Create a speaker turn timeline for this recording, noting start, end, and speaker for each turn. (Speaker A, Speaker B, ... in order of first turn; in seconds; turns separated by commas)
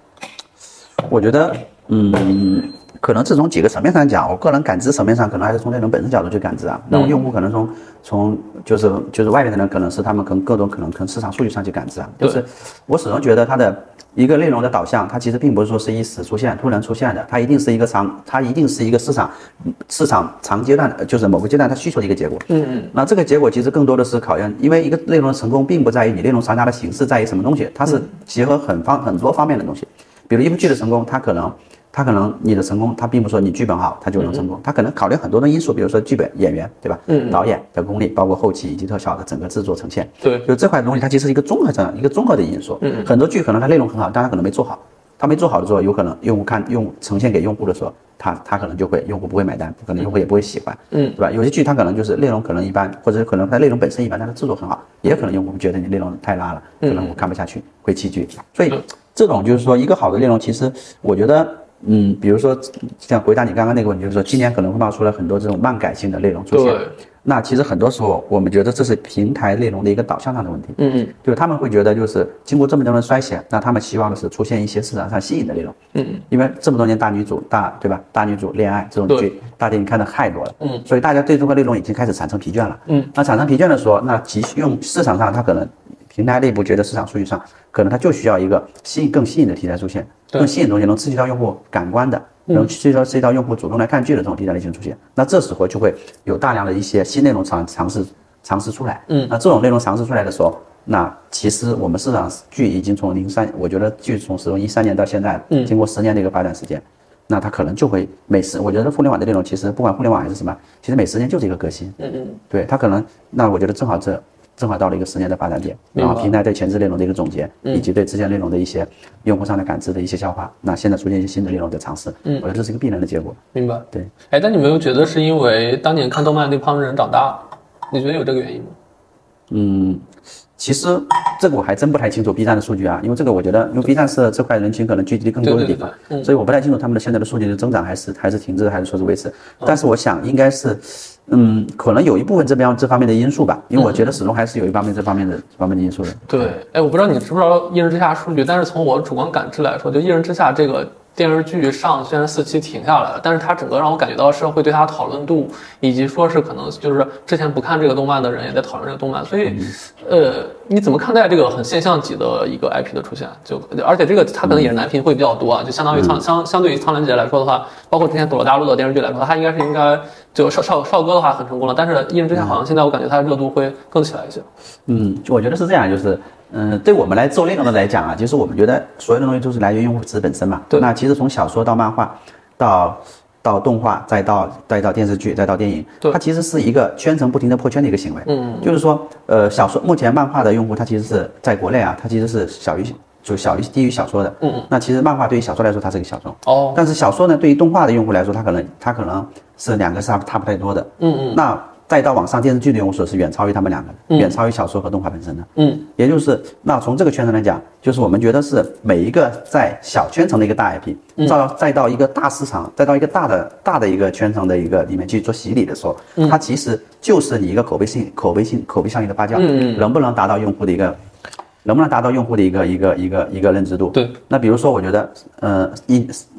Speaker A: 1.0-75.8, Speaker B: 6.9-7.2, Speaker B: 22.5-22.9, Speaker B: 34.2-34.4, Speaker B: 37.1-37.4, Speaker B: 40.2-40.5, Speaker B: 42.8-43.1, Speaker B: 50.9-51.2, Speaker B: 56.8-57.2, Speaker B: 66.5-66.9, Speaker B: 70.8-71.1, Speaker B: 75.9-76.2, Speaker A: 76.3-112.0, Speaker B: 82.9-83.1, Speaker B: 99.1-99.3, Speaker B: 112.0-112.4, Speaker A: 112.5-123.4, Speaker B: 115.9-116.4, Speaker B: 123.5-128.7, Speaker A: 129.5-130.1, Speaker A: 130.6-146.5, Speaker B: 135.4-136.3, Speaker B: 143.8-144.1, Speaker B: 146.3-174.5, Speaker A: 159.5-159.7, Speaker A: 164.4-164.7, Speaker A: 165.9-166.2, Speaker A: 172.3-172.6, Speaker A: 174.9-221.0, Speaker B: 188.2-188.7, Speaker B: 194.4-194.7, Speaker B: 196.4-196.8, Speaker B: 201.0-201.4, Speaker B: 204.1-204.3, Speaker B: 205.6-205.9, Speaker B: 219.3-219.9, Speaker A: 221.6-226.2